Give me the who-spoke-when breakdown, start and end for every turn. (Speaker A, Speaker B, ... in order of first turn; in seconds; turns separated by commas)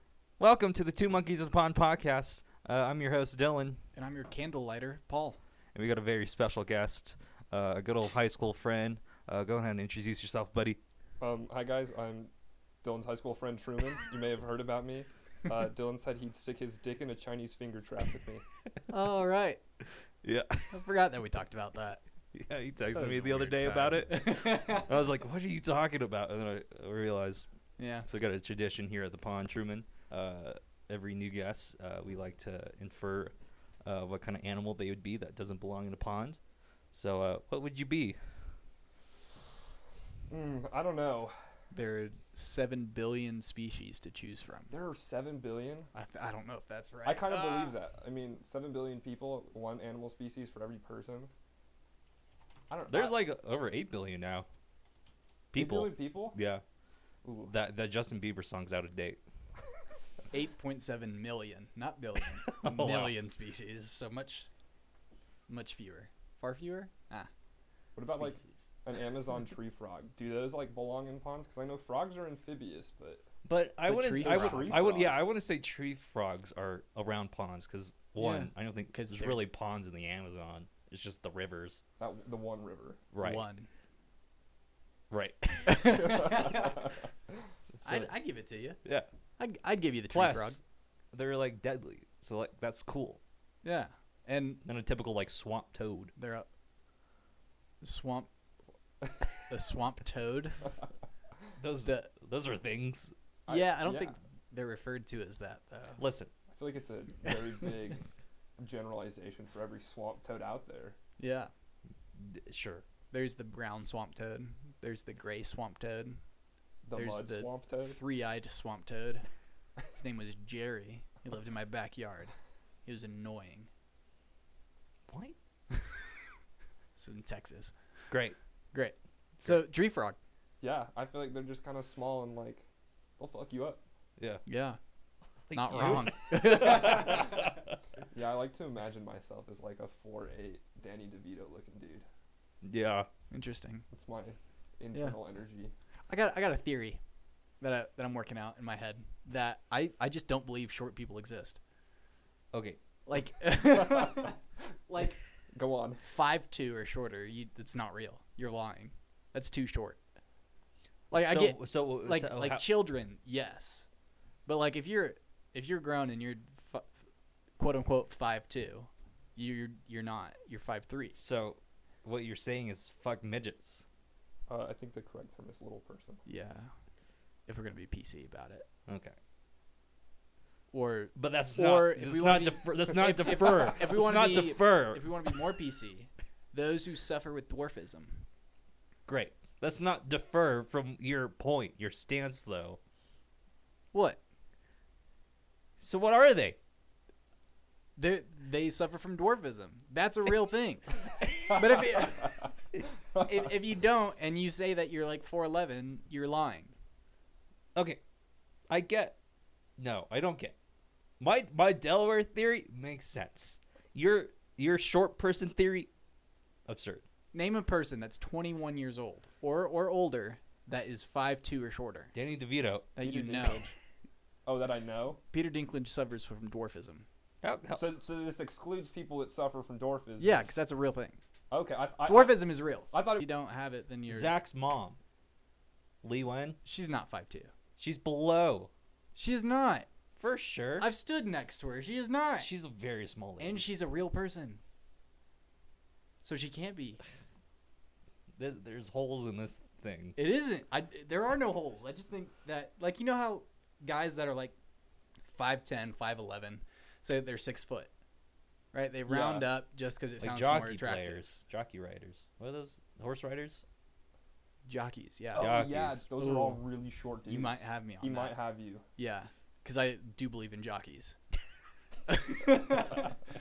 Speaker A: 0.4-3.8, Speaker B: 3.9-5.4, Speaker A: 5.7-10.8, Speaker C: 11.2-12.3, Speaker C: 12.8-18.4, Speaker B: 18.9-19.6, Speaker A: 20.2-20.8, Speaker B: 20.7-22.0, Speaker A: 22.3-27.5, Speaker B: 22.9-24.9, Speaker B: 27.8-28.1, Speaker A: 28.1-33.3, Speaker A: 33.8-36.4, Speaker A: 36.9-38.2, Speaker C: 40.3-41.3, Speaker B: 41.7-44.7, Speaker C: 44.7-45.9, Speaker B: 45.9-47.7, Speaker C: 47.0-51.3, Speaker C: 52.7-53.2, Speaker A: 52.9-54.5, Speaker A: 55.5-56.6, Speaker C: 55.5-56.4, Speaker C: 57.2-57.5, Speaker A: 57.5-59.2, Speaker B: 60.3-64.5, Speaker A: 62.5-63.1, Speaker B: 65.5-67.3, Speaker C: 68.0-73.3, Speaker B: 68.1-68.6, Speaker A: 73.4-81.8, Speaker B: 73.9-74.8, Speaker C: 74.2-75.2, Speaker B: 78.2-79.4, Speaker C: 82.0-83.0, Speaker A: 83.1-83.4, Speaker B: 83.2-83.7, Speaker A: 85.1-86.2, Speaker B: 85.7-86.9, Speaker A: 87.8-88.1, Speaker B: 87.8-88.8, Speaker B: 89.4-90.6, Speaker A: 90.1-90.6, Speaker A: 91.1-93.2, Speaker B: 93.6-94.6, Speaker A: 94.6-96.1, Speaker B: 96.2-96.5, Speaker B: 97.8-98.3, Speaker B: 99.5-100.6, Speaker A: 101.6-103.1, Speaker B: 101.8-102.1, Speaker C: 103.5-104.1, Speaker B: 103.5-106.0, Speaker A: 106.0-106.3, Speaker C: 106.5-108.0, Speaker C: 108.6-111.0, Speaker B: 111.2-111.5, Speaker A: 112.2-112.8, Speaker B: 113.1-116.2, Speaker C: 116.8-118.0, Speaker B: 117.0-119.3, Speaker B: 119.9-122.3, Speaker B: 122.8-123.7, Speaker A: 125.1-125.3, Speaker B: 127.0-127.7, Speaker A: 128.1-128.3, Speaker B: 128.7-130.2, Speaker C: 130.6-132.6, Speaker C: 133.2-133.8, Speaker A: 134.2-134.4, Speaker B: 134.4-134.8, Speaker A: 135.5-137.6, Speaker B: 135.5-137.3, Speaker C: 138.1-142.1, Speaker A: 142.6-143.1, Speaker B: 143.3-143.8, Speaker C: 143.9-145.7, Speaker B: 146.1-147.0, Speaker B: 147.6-151.6, Speaker A: 152.5-152.8, Speaker B: 153.1-154.3, Speaker B: 154.9-155.2, Speaker C: 155.5-156.0, Speaker B: 156.0-160.0, Speaker A: 161.1-162.7, Speaker B: 161.1-163.9, Speaker B: 164.4-166.9, Speaker B: 167.6-171.2, Speaker A: 171.2-173.8, Speaker C: 174.5-176.2, Speaker B: 176.2-176.7, Speaker B: 177.5-178.7, Speaker A: 178.9-179.2, Speaker B: 180.7-188.2, Speaker A: 181.1-185.3, Speaker A: 189.1-192.8, Speaker B: 193.9-194.2, Speaker A: 195.8-196.6, Speaker B: 197.9-202.5, Speaker B: 203.1-206.7, Speaker A: 207.7-208.0, Speaker A: 208.7-209.2, Speaker A: 209.8-210.5, Speaker A: 211.2-215.9, Speaker A: 216.7-217.0, Speaker B: 217.3-222.1, Speaker A: 222.1-222.9, Speaker B: 222.9-223.7, Speaker C: 223.0-223.7, Speaker C: 224.4-225.2, Speaker B: 225.3-227.1, Speaker A: 227.4-227.8, Speaker C: 227.7-230.4, Speaker B: 230.2-231.2, Speaker C: 231.5-233.2, Speaker B: 232.1-234.3, Speaker A: 234.1-235.0, Speaker A: 236.0-236.6, Speaker B: 236.6-237.5, Speaker A: 237.8-238.7, Speaker B: 239.1-239.9, Speaker A: 240.2-240.9, Speaker B: 240.8-242.5, Speaker A: 242.4-243.6, Speaker B: 243.4-244.6, Speaker B: 246.2-247.0, Speaker A: 248.3-250.2, Speaker B: 250.2-254.5, Speaker B: 255.3-257.9, Speaker B: 258.7-261.3, Speaker C: 259.1-259.4, Speaker A: 260.2-263.6, Speaker B: 264.6-265.6, Speaker C: 265.4-268.8, Speaker A: 265.4-266.0, Speaker B: 266.1-266.6, Speaker B: 267.3-268.4, Speaker B: 268.9-271.2, Speaker B: 272.1-273.1